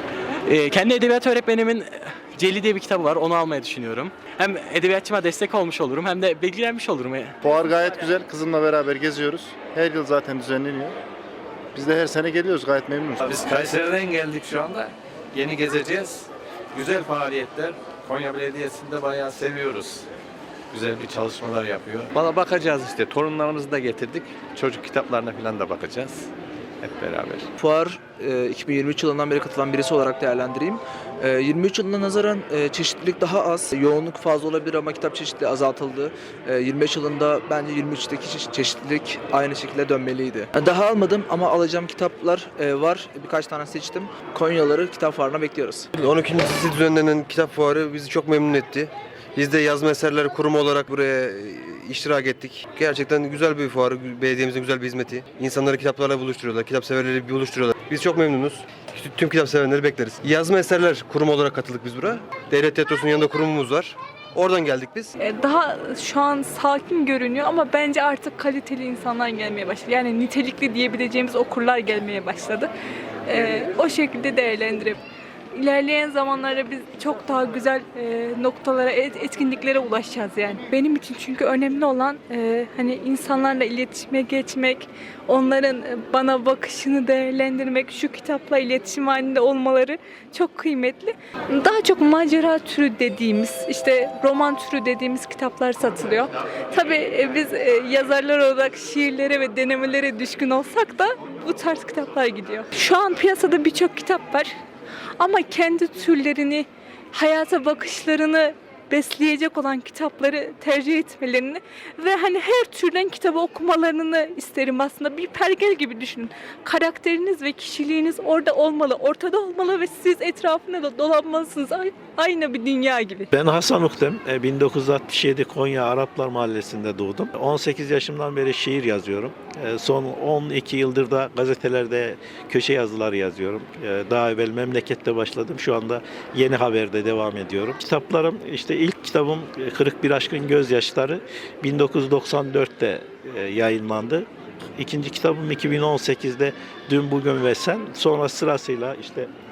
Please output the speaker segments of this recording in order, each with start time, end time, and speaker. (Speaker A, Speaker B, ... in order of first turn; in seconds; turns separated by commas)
Speaker A: 0.5-7.3, Speaker B: 7.4-10.9, Speaker B: 11.7-13.3, Speaker C: 13.2-20.0, Speaker C: 20.7-26.3, Speaker C: 26.8-27.4, Speaker D: 27.6-45.9, Speaker E: 46.0-65.1, Speaker F: 65.2-72.7, Speaker F: 73.3-75.0, Speaker F: 75.5-104.5, Speaker F: 105.2-123.3, Speaker G: 123.3-149.3